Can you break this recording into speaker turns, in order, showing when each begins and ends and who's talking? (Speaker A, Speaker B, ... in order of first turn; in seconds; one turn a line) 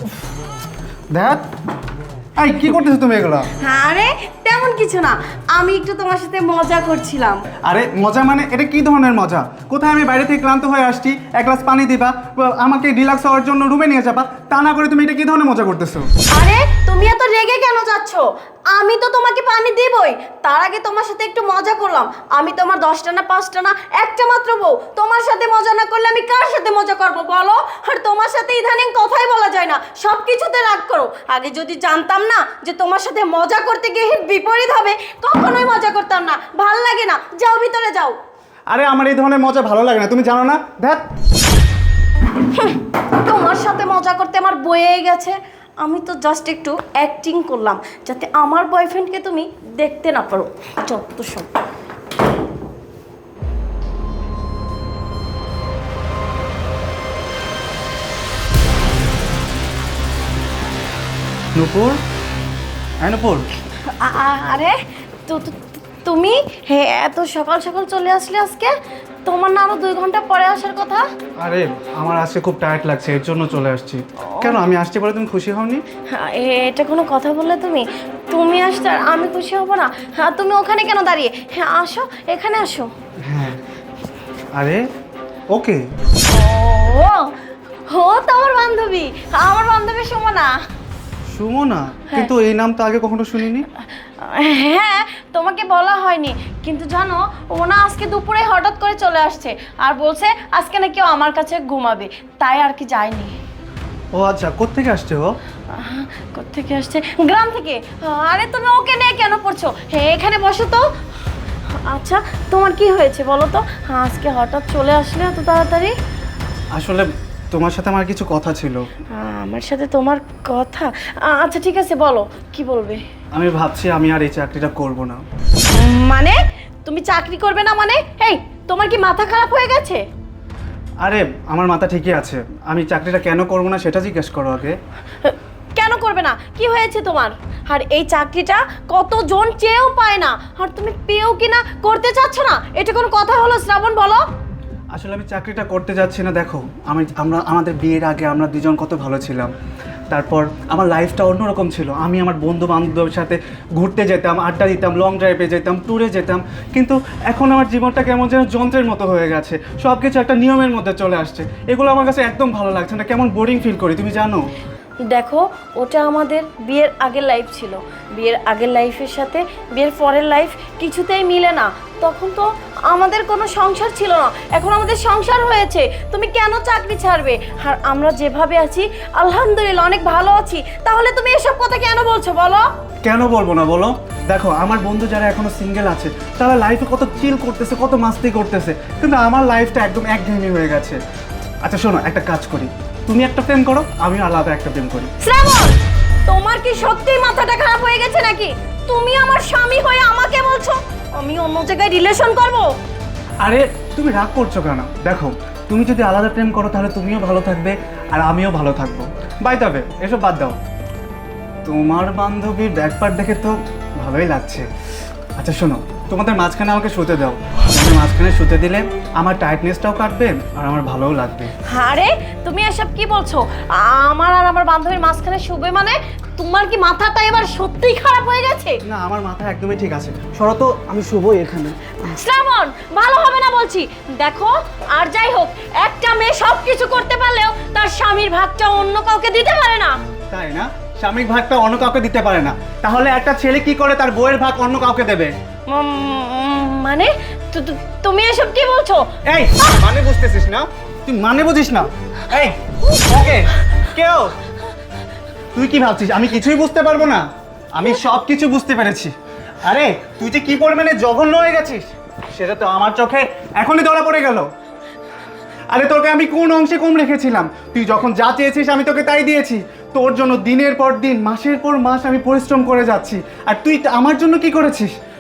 Speaker A: 1.1-1.4
Speaker A: 2.4-3.5
Speaker B: 3.6-7.5
Speaker A: 7.6-16.1
Speaker B: 16.3-38.2
Speaker A: 38.7-41.1
Speaker B: 42.5-51.5
Speaker A: 61.5-62.0
Speaker A: 63.0-63.5
Speaker B: 63.9-68.7
Speaker B: 69.3-71.0
Speaker A: 71.4-75.8
Speaker B: 74.3-74.6
Speaker B: 76.1-82.9
Speaker A: 83.2-83.6
Speaker A: 84.5-84.9
Speaker A: 85.5-85.8
Speaker B: 86.3-87.3
Speaker B: 87.9-90.6
Speaker A: 91.3-93.7
Speaker B: 94.2-103.3
Speaker A: 104.1-105.4
Speaker B: 105.7-110.9
Speaker B: 111.7-115.9
Speaker A: 116.7-118.8
Speaker B: 119.2-123.0
Speaker A: 123.3-125.2
Speaker B: 125.7-130.0
Speaker A: 131.0-134.8
Speaker B: 135.2-144.2
Speaker A: 144.9-149.5
Speaker A: 150.1-164.5
Speaker B: 165.1-182.7
Speaker A: 183.0-191.0
Speaker A: 191.6-195.1
Speaker B: 195.2-202.7
Speaker A: 203.4-210.6
Speaker A: 211.7-214.7
Speaker A: 215.4-221.5
Speaker B: 221.7-228.8
Speaker A: 228.9-232.0
Speaker B: 232.0-240.0
Speaker A: 240.3-245.3
Speaker B: 245.7-249.8
Speaker A: 249.2-254.4
Speaker A: 255.5-264.5
Speaker A: 265.7-274.9